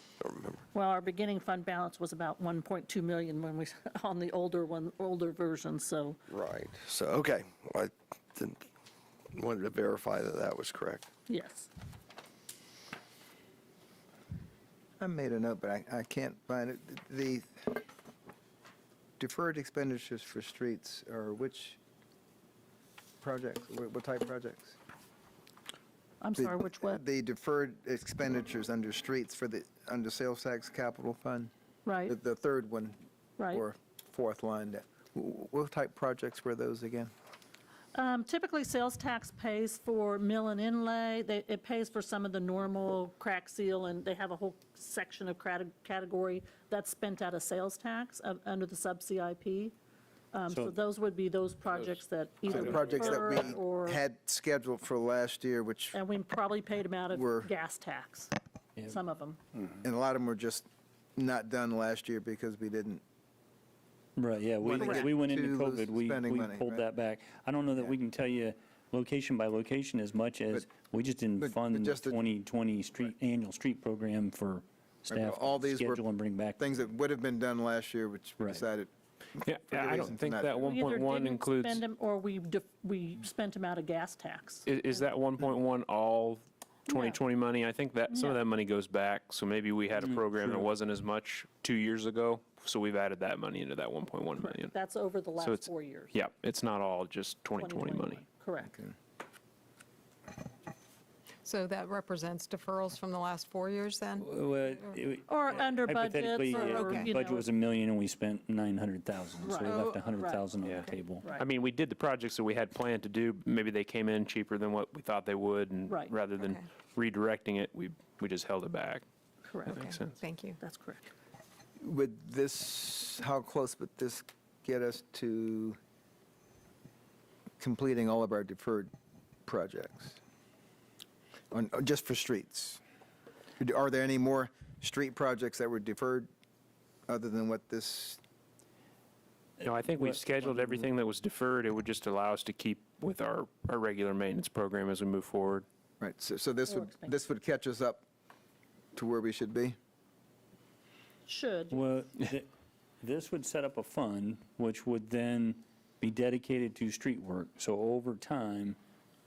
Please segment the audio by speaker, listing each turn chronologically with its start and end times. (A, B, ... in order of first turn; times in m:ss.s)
0:00.2-0:00.6 A
0:00.7-0:06.2 B
0:06.3-0:08.7 A
0:09.3-0:11.1 A
0:11.3-0:11.7 B
0:15.0-0:17.8 C
0:19.2-0:21.8 C
0:23.2-0:24.8 C
0:26.2-0:27.0 B
0:26.4-0:31.5 C
0:31.9-0:32.2 B
0:32.1-0:33.0 C
0:33.4-0:33.6 B
0:33.5-0:37.1 C
0:37.9-0:49.8 B
0:50.3-0:54.0 B
0:50.5-0:50.8 D
0:52.5-0:56.0 C
0:55.9-0:59.4 B
0:57.1-0:57.5 C
0:59.8-1:03.0 C
1:04.2-1:16.6 D
1:04.6-1:06.9 C
1:04.8-1:05.1 B
1:11.4-1:12.2 C
1:15.1-1:16.0 C
1:16.6-1:20.8 C
1:19.4-1:21.8 E
1:20.6-1:25.1 B
1:24.7-1:34.7 E
1:26.9-1:27.2 B
1:28.1-1:28.4 B
1:34.4-1:36.2 B
1:35.4-1:38.2 E
1:37.6-1:38.7 B
1:41.4-1:44.3 F
1:44.2-1:51.3 D
1:45.3-1:47.5 B
1:46.5-1:47.1 F
1:49.4-1:50.5 B
1:49.7-1:50.0 F
1:50.6-1:59.0 E
1:59.5-1:59.8 B
1:59.7-2:00.2 E
1:59.7-2:00.6 F
2:00.6-2:01.1 B
2:01.8-2:05.8 C
2:07.6-2:08.9 C
2:09.5-2:10.2 C
2:11.5-2:12.8 C
2:13.6-2:16.3 C
2:17.1-2:18.2 C
2:19.6-2:20.9 D
2:19.6-2:25.7 E
2:26.0-2:28.0 C
2:26.7-2:27.2 B
2:29.0-2:29.8 C
2:31.3-2:31.8 B
2:31.7-2:32.5 D
2:33.0-2:38.8 D